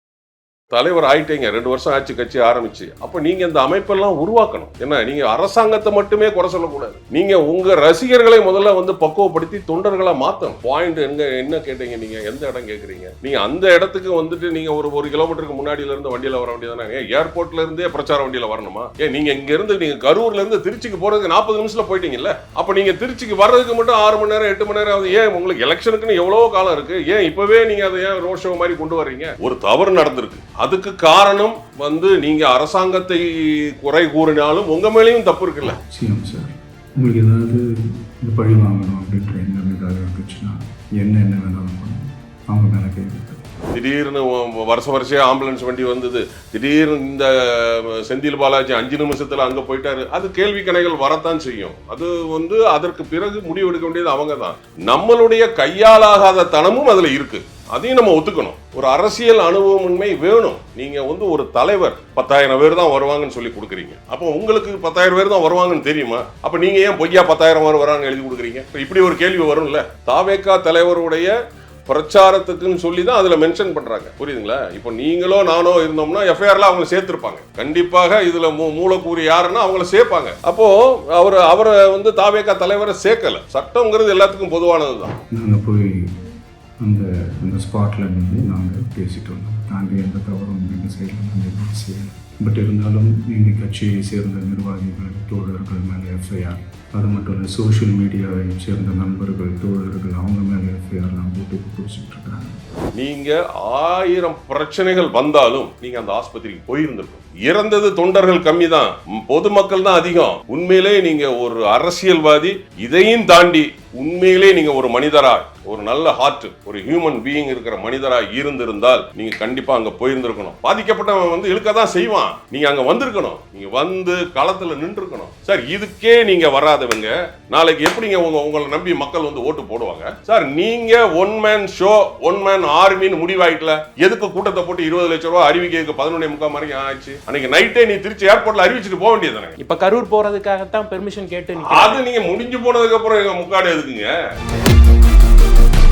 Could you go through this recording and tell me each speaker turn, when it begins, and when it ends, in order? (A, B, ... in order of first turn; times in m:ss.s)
0:00.7-0:35.8 A
0:35.6-0:37.6 B
0:38.2-0:42.0 B
0:42.5-0:43.4 B
0:43.7-1:11.3 A
1:11.9-1:25.1 A
1:25.3-1:26.2 B
1:26.8-1:42.6 B
1:42.9-2:19.6 A
2:19.6-2:22.0 C
2:21.6-2:24.2 A